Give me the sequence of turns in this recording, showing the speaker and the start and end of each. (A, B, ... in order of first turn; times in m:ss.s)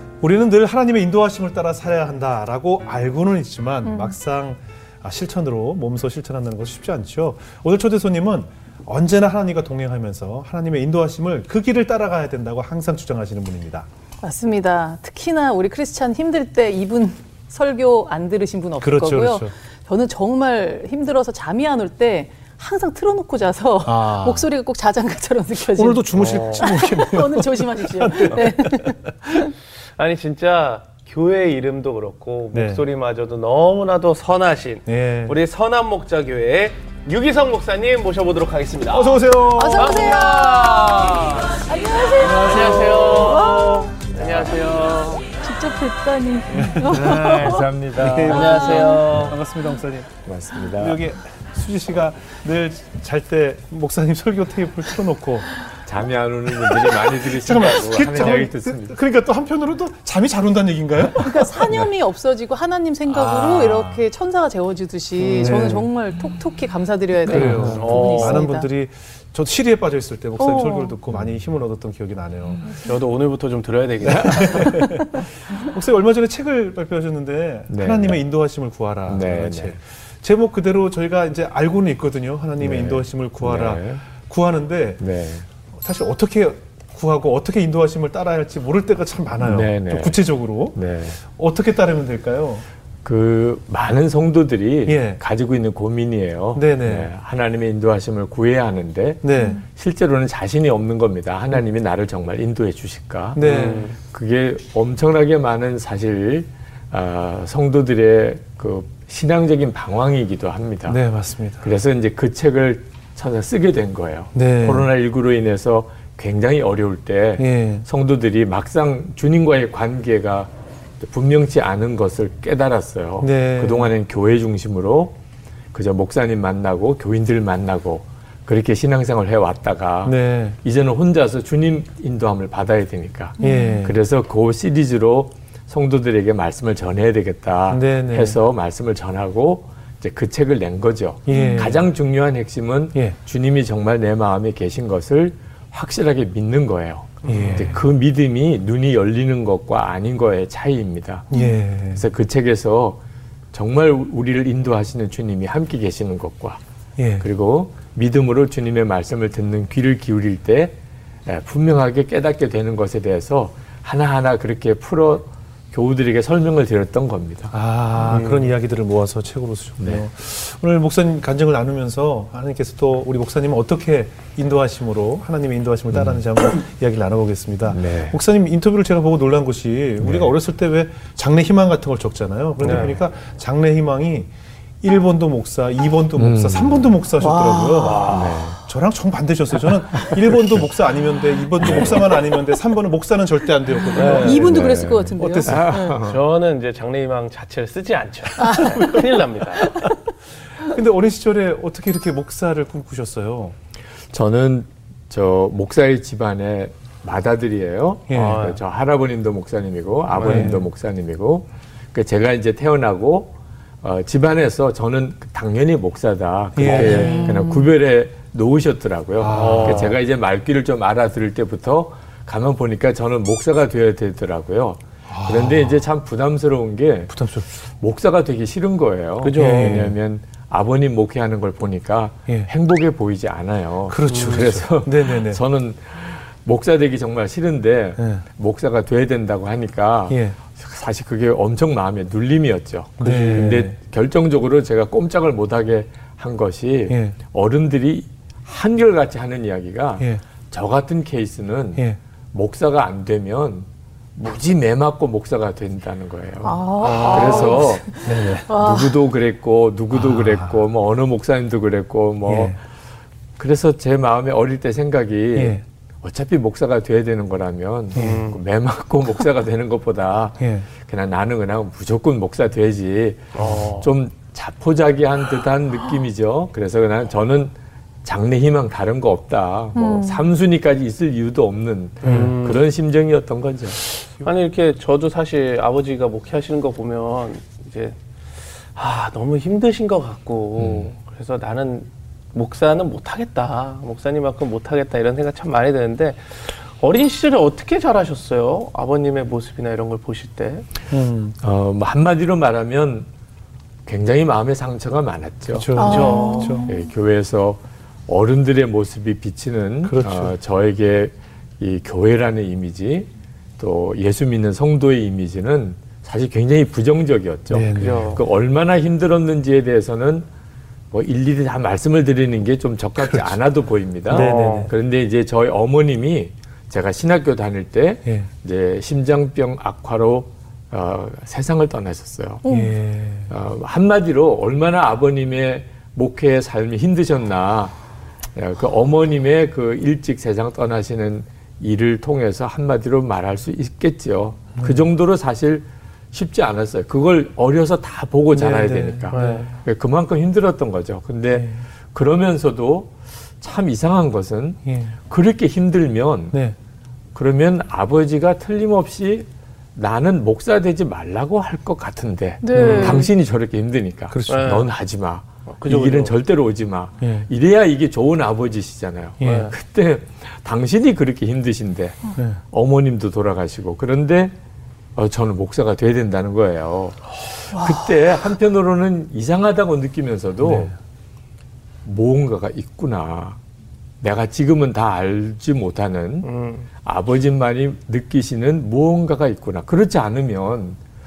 0:00.2-0:13.9 A
0:03.8-0:04.1 B
0:14.2-0:29.5 B
0:18.8-0:19.5 A
0:23.8-0:24.5 A
0:25.7-0:29.0 A
0:26.1-0:26.8 C
0:30.0-0:45.3 C
0:32.5-0:32.8 A
0:34.8-0:35.4 A
0:38.9-0:40.2 A
0:39.5-0:40.8 B
0:41.6-0:43.9 B
0:42.2-0:43.5 A
0:45.4-0:47.6 B
0:46.5-0:50.1 A
0:46.9-0:49.3 C
0:46.9-0:49.0 D
0:48.4-0:49.0 B
0:50.2-0:51.0 D
0:50.6-0:55.5 A
0:55.8-0:59.0 D
0:56.7-1:01.8 A
1:01.2-1:08.7 B
1:03.2-1:04.0 D
1:05.2-1:05.6 C
1:05.2-1:05.9 A
1:07.2-1:08.0 D
1:07.3-1:12.7 A
1:07.7-1:08.4 C
1:10.4-1:10.9 B
1:12.8-1:15.0 C
1:14.1-1:25.0 A
1:17.7-1:18.2 D
1:19.1-1:19.8 D
1:22.6-1:24.0 D
1:25.0-1:25.4 D
1:25.7-1:32.6 A
1:29.4-1:30.2 D
1:30.7-1:31.2 D
1:33.0-1:51.0 D
1:34.8-1:35.2 A
1:36.5-1:37.1 A
1:39.2-1:39.6 A
1:43.3-1:43.9 A
1:43.4-1:44.0 C
1:50.9-1:51.7 A
1:51.6-2:05.2 D
1:54.3-1:54.9 A
1:57.4-1:57.8 A
2:03.2-2:03.9 A
2:05.7-2:31.3 D
2:10.0-2:10.6 A
2:13.4-2:14.0 A
2:13.4-2:13.8 B
2:17.7-2:18.4 A
2:21.2-2:21.8 A
2:21.3-2:21.7 B
2:27.2-2:27.8 A
2:31.3-2:32.0 A
2:31.3-2:31.6 B
2:31.9-2:33.0 D
2:33.5-2:36.6 D
2:37.0-2:37.3 A
2:37.2-2:47.5 D
2:47.5-3:04.3 A
2:48.0-2:48.5 C
2:55.9-2:56.2 D
2:57.7-2:58.2 D
3:00.0-3:00.3 D
3:02.6-3:02.9 C
3:02.6-3:02.9 D
3:04.8-3:15.8 A
3:06.2-3:07.0 D
3:07.2-3:08.2 B
3:07.8-3:08.2 C
3:08.1-3:08.6 D
3:11.6-3:12.0 D
3:13.8-3:16.0 B
3:13.9-3:14.5 C
3:14.4-3:16.2 D
3:16.0-3:19.9 C
3:18.4-3:18.9 B
3:18.6-3:19.0 A
3:19.6-3:19.9 B
3:20.6-3:23.5 A
3:24.1-4:22.6 D
3:28.1-3:28.4 A
3:28.1-3:28.6 C
3:30.1-3:30.5 C
3:30.2-3:30.7 A
3:36.5-3:37.4 A
3:36.6-3:37.1 C
3:36.8-3:37.7 B
3:39.2-3:39.9 A
3:39.3-3:40.0 C
3:45.1-3:45.8 A
3:47.1-3:47.5 A
3:49.2-3:49.9 C
3:49.4-3:50.0 A
3:53.9-3:55.4 A
3:54.1-3:54.5 C
3:58.0-3:58.2 A
4:00.1-4:00.4 A
4:03.0-4:03.7 A
4:03.0-4:03.5 C
4:06.9-4:07.2 A
4:16.4-4:18.9 B
4:16.8-4:17.6 C
4:18.0-4:18.5 A
4:19.9-4:20.5 A
4:22.2-4:22.6 A
4:23.4-4:43.8 D
4:25.3-4:25.6 A
4:27.9-4:28.2 A
4:28.0-4:28.4 C
4:30.4-4:30.7 A
4:33.3-4:33.9 C
4:39.7-4:40.2 B
4:42.0-4:42.3 A
4:42.0-4:42.6 C
4:44.0-4:48.0 C
4:48.7-5:00.7 C
4:50.6-4:50.9 D
5:00.9-5:01.4 A
5:01.4-5:03.1 D
5:03.8-5:06.0 D
5:05.5-5:06.7 A
5:05.8-5:06.7 B
5:05.8-5:06.6 C
5:06.6-5:20.3 D
5:09.8-5:10.3 A
5:17.5-5:18.1 A
5:17.8-5:18.2 C
5:20.9-5:32.4 D
5:23.0-5:23.4 A
5:24.1-5:24.7 A
5:24.1-5:24.7 C
5:32.4-5:32.7 B
5:32.4-5:33.3 A
5:33.3-5:37.7 D
5:38.3-5:56.4 D
5:44.6-5:44.8 A
5:48.3-5:49.5 A
5:49.1-5:49.5 C
5:51.3-5:51.6 A
5:54.6-5:54.9 A
5:57.1-6:14.3 D
6:02.4-6:03.1 B
6:02.5-6:03.1 A
6:02.6-6:03.0 C
6:04.1-6:04.6 A
6:04.3-6:04.7 C
6:05.5-6:06.1 C
6:07.0-6:07.3 A
6:09.2-6:09.5 A
6:09.2-6:09.5 C
6:15.0-6:20.7 D
6:17.5-6:17.9 B
6:20.4-6:20.7 A
6:21.8-6:23.4 D
6:24.0-6:26.3 D
6:26.2-6:26.7 C
6:26.8-6:30.8 D